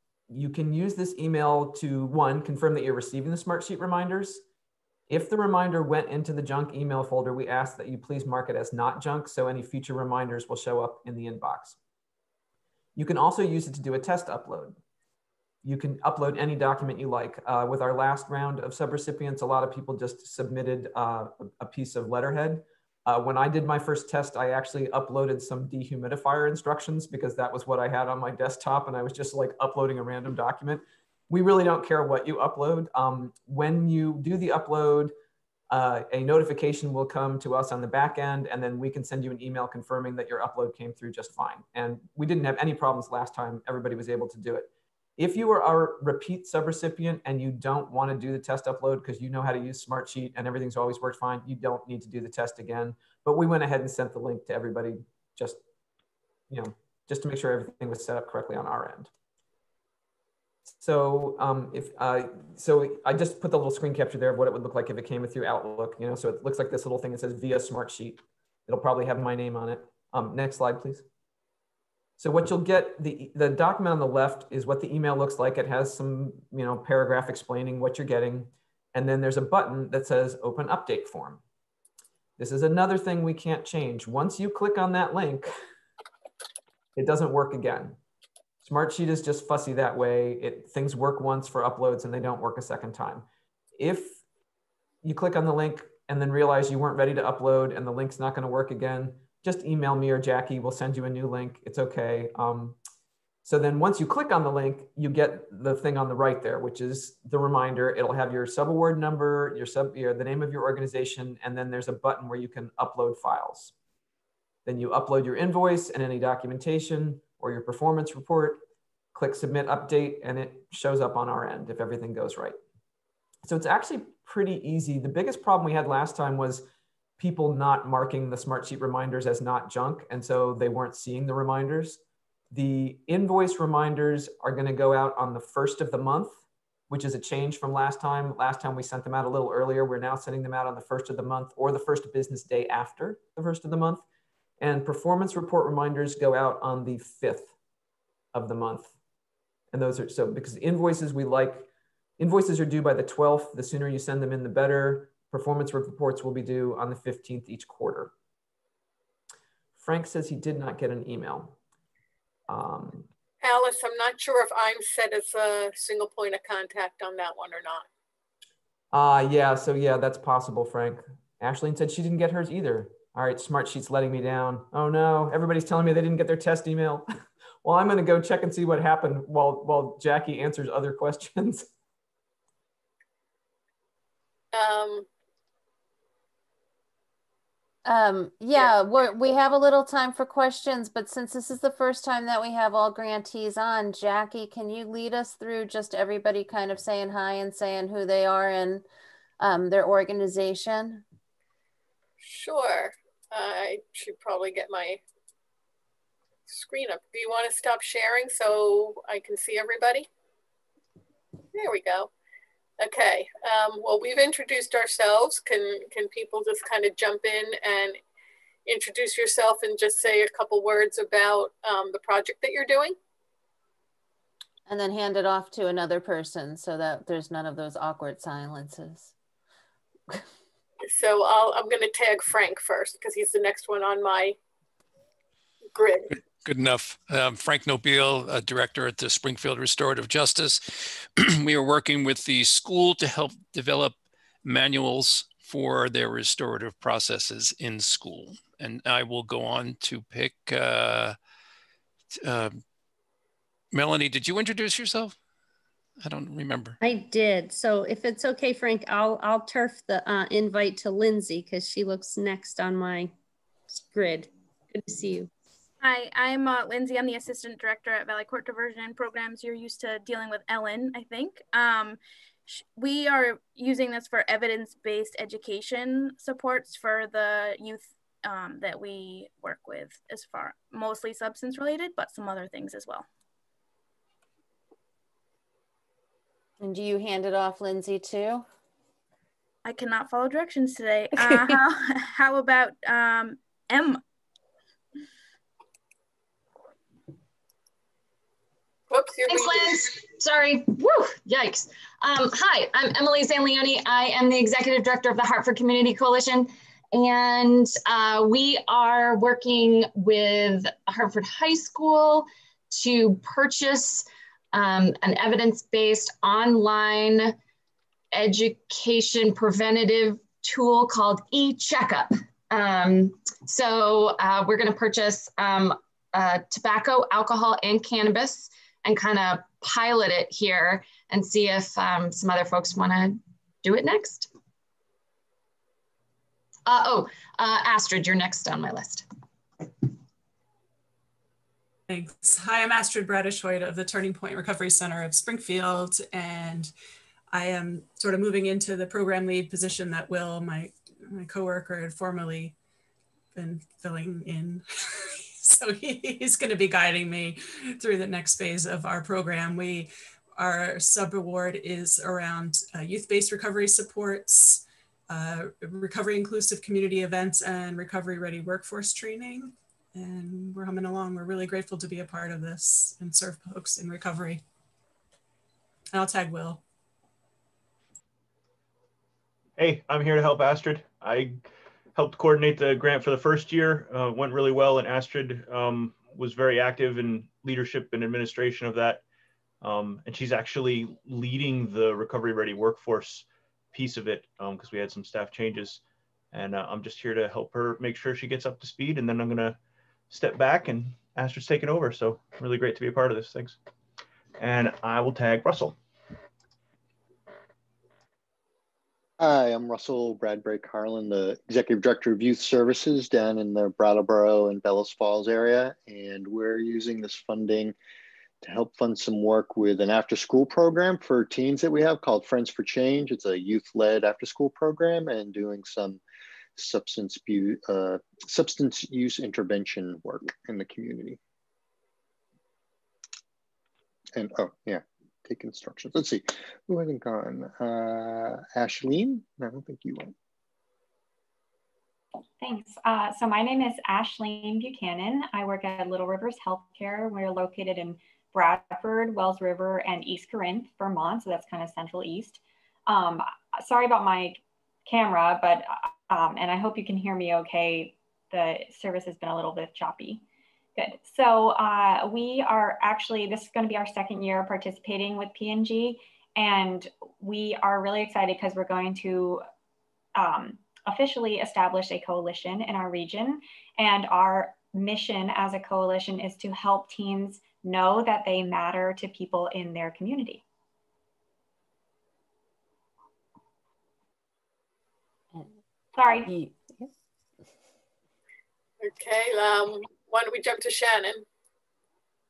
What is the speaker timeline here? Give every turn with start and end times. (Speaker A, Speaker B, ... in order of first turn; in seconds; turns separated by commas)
Speaker A: 0.3-4.4, Speaker A: 5.1-11.8, Speaker A: 12.9-14.8, Speaker A: 15.6-35.1, Speaker A: 35.7-55.6, Speaker A: 56.5-59.1, Speaker A: 60.8-71.0, Speaker A: 72.2-81.4, Speaker A: 82.4-85.5, Speaker A: 87.0-88.0, Speaker A: 88.6-93.2, Speaker A: 93.8-94.2, Speaker A: 95.0-102.8, Speaker A: 103.4-113.7, Speaker A: 114.7-118.6, Speaker A: 119.1-122.5, Speaker A: 123.4-126.7, Speaker A: 127.2-132.0, Speaker A: 132.5-144.0, Speaker A: 144.6-147.5, Speaker A: 148.3-148.9, Speaker A: 149.7-158.1, Speaker A: 159.8-161.6, Speaker A: 162.5-163.1, Speaker B: 163.4-167.9, Speaker A: 168.9-177.1, Speaker A: 177.6-181.7, Speaker B: 184.5-185.1, Speaker C: 187.8-198.8, Speaker C: 199.4-201.0, Speaker B: 202.2-205.0, Speaker B: 206.5-210.1, Speaker B: 211.5-212.1, Speaker B: 212.8-218.0, Speaker B: 218.7-222.9, Speaker C: 224.7-229.1, Speaker B: 230.8-234.3, Speaker B: 235.7-236.1, Speaker D: 236.1-251.2, Speaker D: 252.2-252.6, Speaker D: 253.7-255.2, Speaker D: 256.0-256.8, Speaker E: 256.8-263.1, Speaker E: 263.7-265.3, Speaker F: 265.8-283.1, Speaker C: 286.6-288.4, Speaker F: 289.6-294.0, Speaker B: 298.9-299.8, Speaker G: 299.3-317.4, Speaker G: 318.1-334.3, Speaker G: 336.6-339.1, Speaker H: 341.9-346.7, Speaker H: 347.3-352.5, Speaker H: 353.3-374.4, Speaker H: 375.9-376.6, Speaker I: 379.6-389.0, Speaker I: 389.6-395.8, Speaker I: 396.3-399.6, Speaker I: 400.1-403.6, Speaker I: 404.4-405.8, Speaker J: 409.2-417.7, Speaker J: 418.4-426.0, Speaker J: 426.6-431.2, Speaker J: 434.1-440.1, Speaker K: 442.4-460.2, Speaker K: 460.8-469.4, Speaker K: 470.2-480.4, Speaker K: 485.9-486.3, Speaker B: 488.8-491.2